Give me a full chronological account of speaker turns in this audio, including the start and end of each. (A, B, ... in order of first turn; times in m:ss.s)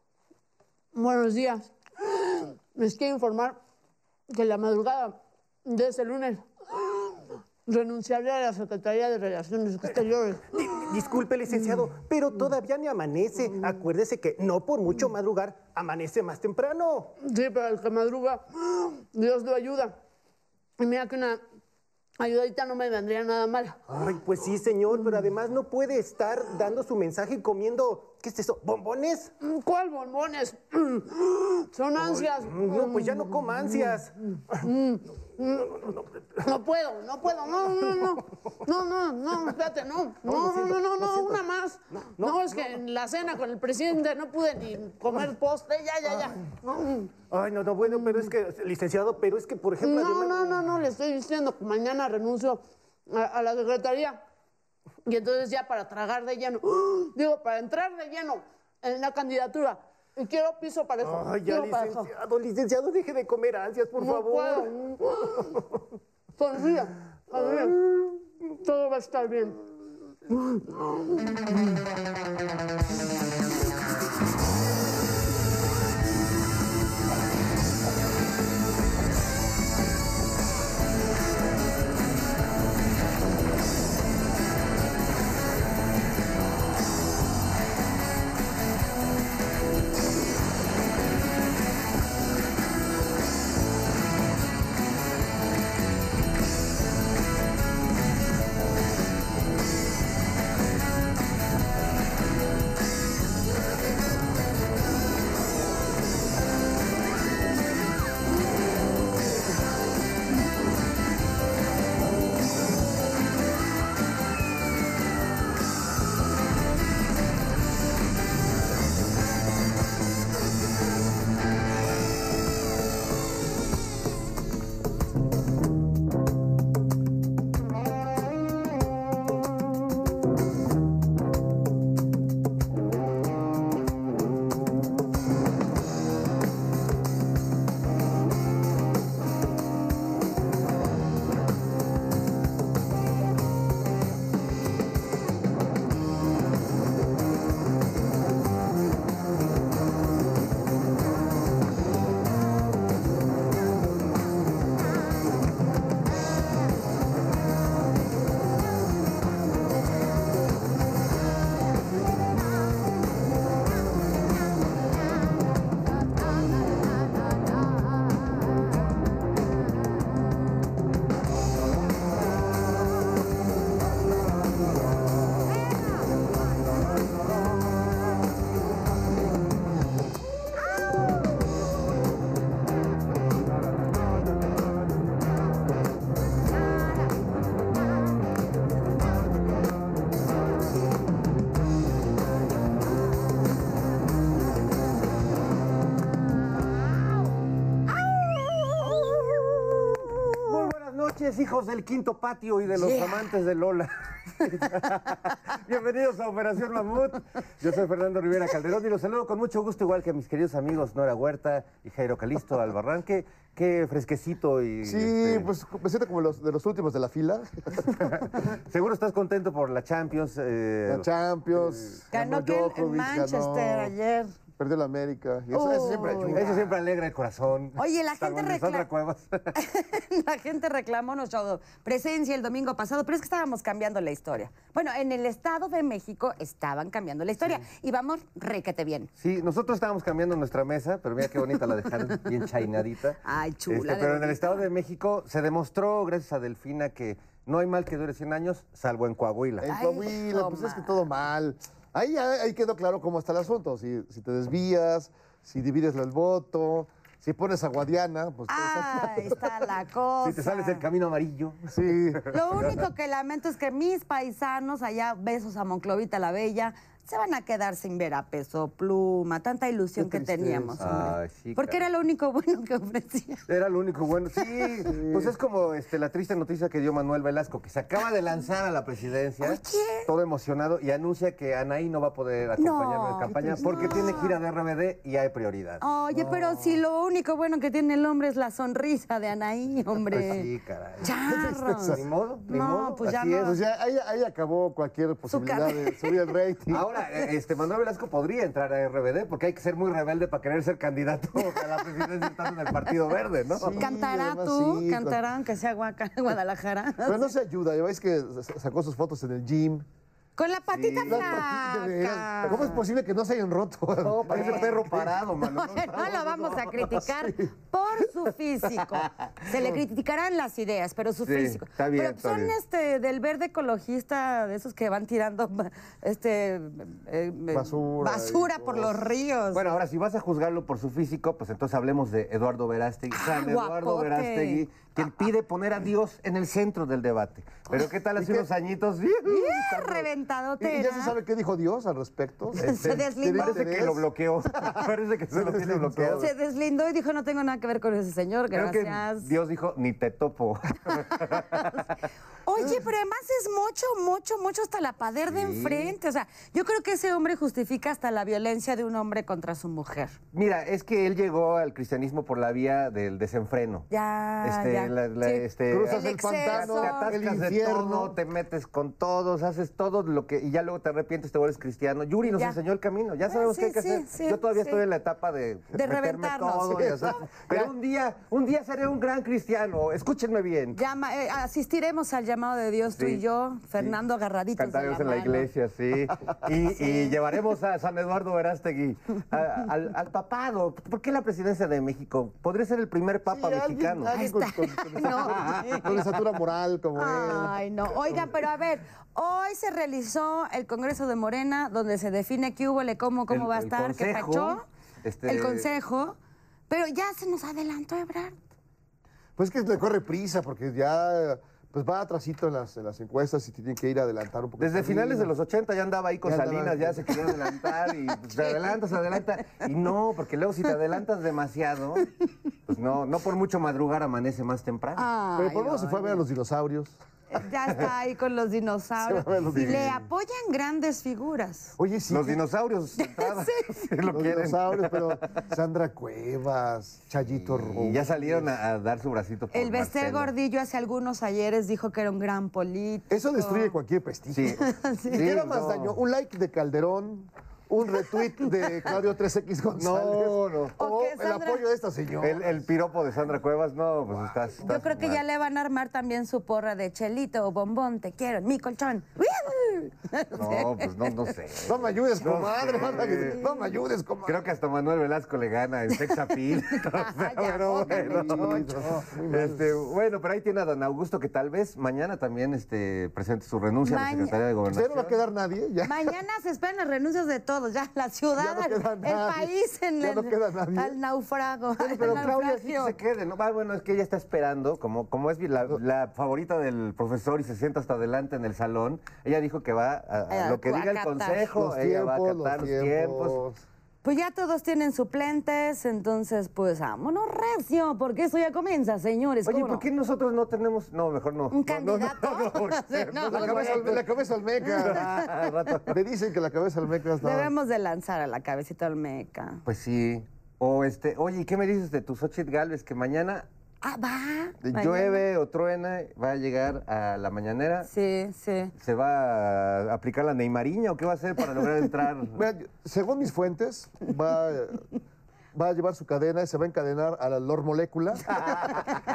0:01.0-0:03.6 A
0:04.3-0:07.1 A
0:07.7-0:10.4 A
0:10.5-0:17.1 B
0:17.3-0:20.0 A
0:20.8-0:21.4 A
0:22.2-0:23.8 A
0:23.9-0:29.3 B
0:29.5-0:33.8 A
0:32.0-0:34.1 B
0:34.6-0:35.6 A
0:36.4-0:46.4 A
0:40.2-0:42.8 B
0:47.3-0:50.7 B
0:49.8-0:54.2 A
0:55.1-1:02.0 A
1:01.0-1:04.7 B
1:04.0-1:05.1 A
1:06.4-1:07.8 A
1:07.3-1:07.8 B
1:08.6-1:09.6 A
3:20.3-3:35.5 C
3:22.8-3:23.1 D
3:34.8-3:38.0 E
3:38.4-3:41.1 C
3:40.9-3:43.9 E
3:42.1-3:44.3 D
3:44.6-3:46.8 E
3:45.5-3:46.5 D
3:46.3-3:49.5 C
3:47.8-3:48.9 D
3:49.6-3:59.1 D
3:59.2-4:09.7 C
4:01.4-4:02.3 D
4:03.2-4:04.7 D
4:09.6-4:19.4 E
4:09.7-4:11.0 D
4:18.5-4:20.8 D
4:20.2-4:21.6 C
4:21.7-4:22.2 E
4:22.3-4:33.4 D
4:30.0-4:30.9 E
4:30.8-4:31.8 C
4:33.5-4:46.4 C
4:34.4-4:34.9 D
4:35.0-4:35.3 E
4:39.4-4:40.1 D
4:42.6-4:44.4 D
4:45.8-4:50.5 D
4:50.1-4:51.1 C
4:51.0-4:53.6 D
4:51.2-4:52.0 E
4:51.9-4:53.5 C
4:53.4-4:56.8 E
4:55.3-4:56.3 D
4:56.7-5:03.8 C
5:01.4-5:01.8 D
5:03.6-5:05.2 E
5:03.7-5:07.3 D
5:07.0-5:09.9 E
5:10.4-5:12.8 D
5:10.7-5:11.4 C
5:11.0-5:15.1 E
5:14.0-5:17.0 C
5:14.2-5:29.7 D
5:19.0-5:19.3 C
5:21.2-5:22.5 C
5:27.5-5:28.8 E
5:29.5-5:40.0 C
5:33.1-5:35.2 D
5:38.2-5:38.5 E
5:39.2-5:41.2 D
5:40.6-5:44.1 E
5:42.6-5:43.7 D
5:42.6-5:46.3 C
5:45.3-5:46.3 E
5:46.1-5:49.3 D
5:48.5-5:51.9 C
5:52.4-6:00.2 D
5:55.3-5:55.9 C
6:00.3-6:03.9 C
6:03.9-6:07.2 D
6:04.4-6:20.8 C
6:05.7-6:08.2 E
6:12.2-6:12.6 D
6:13.3-6:14.8 D
6:15.7-6:17.0 D
6:16.8-6:17.7 E
6:20.8-6:25.5 D
6:22.9-6:23.2 C
6:24.6-6:34.1 C
6:26.8-6:27.2 D
6:33.3-6:38.3 E
6:34.1-6:36.0 D
6:35.2-6:35.7 C
6:36.9-6:44.6 D
6:43.3-6:45.7 C
6:45.2-6:46.2 D
6:46.7-6:48.4 D
6:49.4-6:55.3 E
6:54.6-7:02.0 C
6:56.2-6:57.5 E
7:02.7-7:05.0 C
7:05.0-7:06.2 D
7:05.3-7:07.0 E
7:07.3-7:11.7 D
7:09.0-7:09.9 E
7:09.5-7:10.0 C
7:11.8-7:12.4 E
7:12.1-7:15.2 C
7:13.0-7:13.8 D
7:14.1-7:18.5 E
7:17.3-7:20.3 C
7:19.5-7:23.8 D
7:23.1-7:32.7 E
7:24.3-7:24.6 C
7:24.6-7:25.4 D
7:25.1-7:26.0 C
7:29.8-7:30.8 C
7:30.8-7:31.6 D
7:32.2-7:35.2 C
7:34.6-7:41.3 D
7:40.4-7:43.4 C
7:41.6-7:44.4 E
7:44.2-7:55.2 C
7:46.0-7:49.1 D
7:47.8-7:49.6 E
7:53.8-7:54.4 D
7:54.7-7:56.1 E
7:55.8-8:03.0 D
7:58.3-8:01.0 E
8:01.8-8:13.4 C
8:10.3-8:11.4 D
8:11.5-8:13.6 E
8:14.0-8:19.9 D
8:19.4-8:24.0 C
8:21.5-8:24.0 D
8:23.3-8:25.3 E
8:24.6-8:25.8 D
8:24.8-8:25.9 C
8:25.8-8:27.5 E
8:27.2-8:29.6 D
8:29.6-8:33.5 C
8:33.8-8:35.2 D
8:34.6-8:37.9 C
8:37.9-8:38.7 D
8:38.8-8:42.4 C
8:42.4-8:44.9 E
8:45.5-8:48.9 E
8:48.4-8:48.8 C